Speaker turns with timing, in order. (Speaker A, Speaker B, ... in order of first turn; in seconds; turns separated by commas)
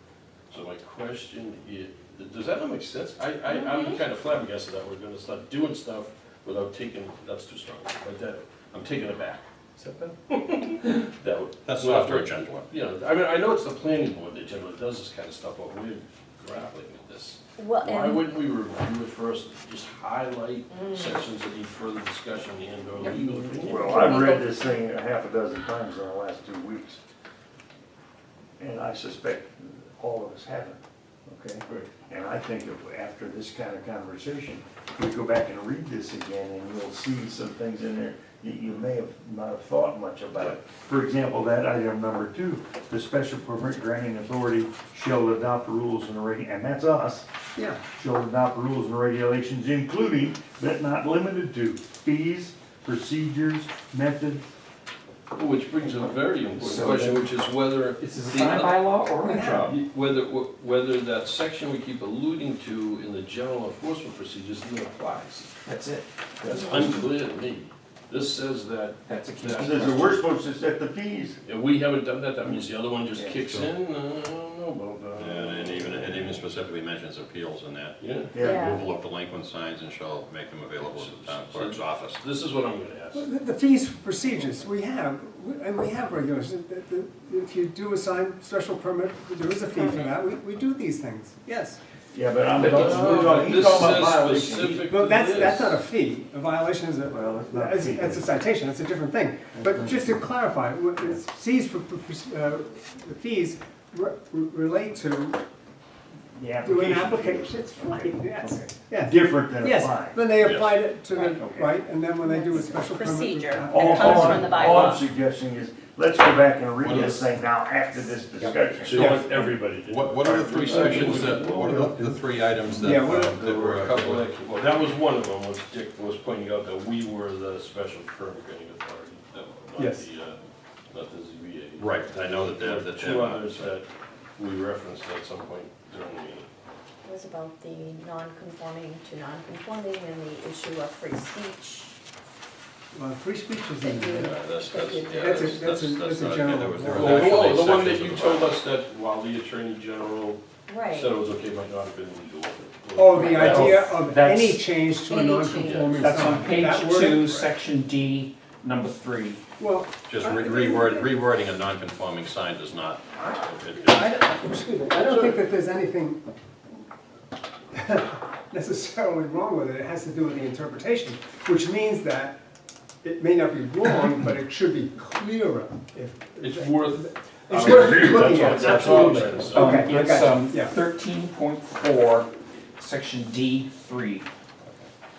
Speaker A: 0.5-24.1, Speaker B: 3.5-4.0, Speaker C: 11.7-12.7, Speaker B: 17.6-18.3, Speaker B: 20.7-21.2, Speaker B: 23.2-24.8, Speaker D: 23.6-27.0, Speaker D: 28.6-47.3, Speaker E: 47.6-47.8, Speaker D: 47.9-54.5, Speaker A: 55.3-58.8, Speaker F: 56.6-57.3, Speaker F: 58.0-59.8, Speaker E: 59.2-59.7, Speaker A: 59.6-65.6, Speaker F: 65.6-67.1, Speaker A: 66.4-70.0, Speaker F: 69.1-70.3, Speaker D: 69.5-71.4, Speaker A: 71.5-76.5, Speaker C: 75.2-78.0, Speaker A: 78.0-78.4, Speaker D: 78.3-78.7, Speaker B: 78.3-78.8, Speaker C: 78.5-82.2, Speaker A: 80.9-83.3, Speaker E: 83.1-91.8, Speaker B: 89.7-90.2, Speaker D: 92.1-94.8, Speaker A: 92.6-95.8, Speaker E: 94.8-105.4, Speaker D: 97.1-98.3, Speaker D: 99.5-100.2, Speaker D: 106.4-110.3, Speaker E: 106.6-114.6, Speaker C: 110.4-110.8, Speaker B: 111.1-111.5, Speaker D: 111.4-111.7, Speaker B: 112.2-115.1, Speaker D: 113.7-119.2, Speaker C: 116.8-117.3, Speaker A: 118.8-121.7, Speaker E: 118.9-119.7, Speaker C: 119.8-124.2, Speaker D: 120.6-122.1, Speaker E: 122.8-123.3, Speaker A: 123.0-136.5, Speaker E: 129.8-130.1, Speaker C: 131.8-133.7, Speaker B: 137.0-142.0, Speaker E: 142.9-144.4, Speaker B: 143.8-145.6, Speaker C: 144.2-148.6, Speaker E: 145.1-147.2, Speaker A: 146.9-153.9, Speaker B: 150.7-151.2, Speaker E: 152.9-157.5, Speaker F: 153.3-154.7, Speaker C: 153.5-153.8, Speaker B: 155.0-155.9, Speaker A: 155.7-156.3, Speaker F: 156.0-159.4, Speaker E: 159.6-161.0, Speaker C: 160.1-164.2, Speaker E: 163.8-166.3, Speaker E: 167.7-172.4, Speaker E: 173.0-180.8, Speaker A: 176.4-179.9, Speaker D: 177.5-179.5, Speaker F: 179.5-184.3